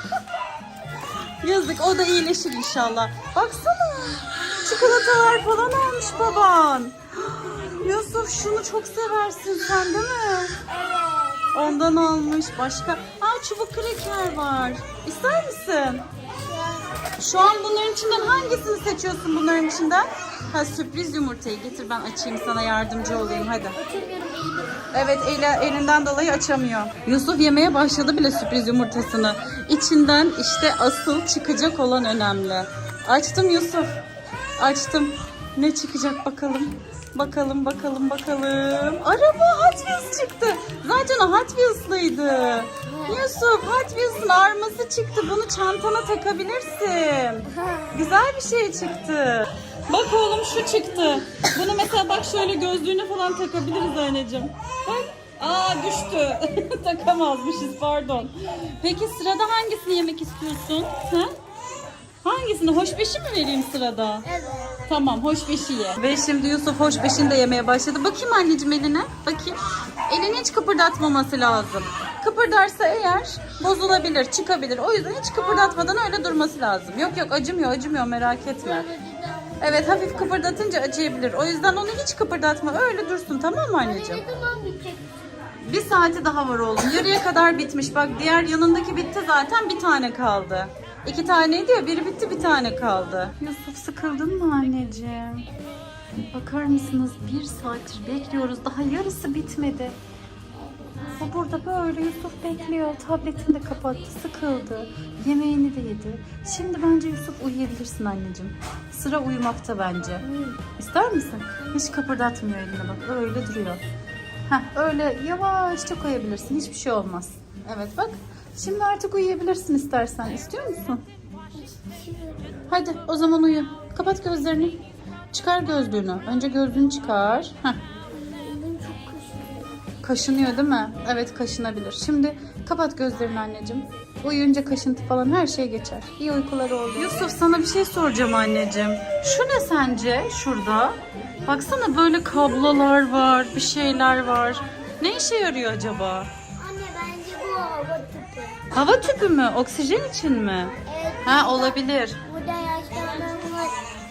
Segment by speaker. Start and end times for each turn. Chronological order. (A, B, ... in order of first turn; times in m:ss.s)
0:01.4-0:10.5 A
0:10.7-0:11.7 B
0:11.5-0:16.0 A
0:16.3-0:18.6 B
0:17.2-0:23.8 A
0:23.0-0:24.9 B
0:24.9-0:33.9 A
0:34.6-1:01.3 A
0:42.8-0:43.2 B
1:02.2-1:04.2 A
1:04.2-1:04.8 B
1:04.9-1:18.9 A
1:15.4-1:15.9 B
1:18.6-1:20.7 B
1:19.6-1:24.2 A
1:23.8-1:25.2 B
1:25.7-1:35.5 A
1:36.3-1:40.0 A
1:40.6-1:41.2 B
1:41.2-1:53.8 A
1:50.2-1:50.6 B
1:54.5-2:01.0 A
2:01.5-2:02.6 B
2:02.7-2:04.8 A
2:05.3-2:07.8 A
2:08.1-2:09.8 B
2:10.0-2:26.3 A
2:26.6-2:28.6 B
2:28.7-2:32.2 A
2:30.8-2:33.8 B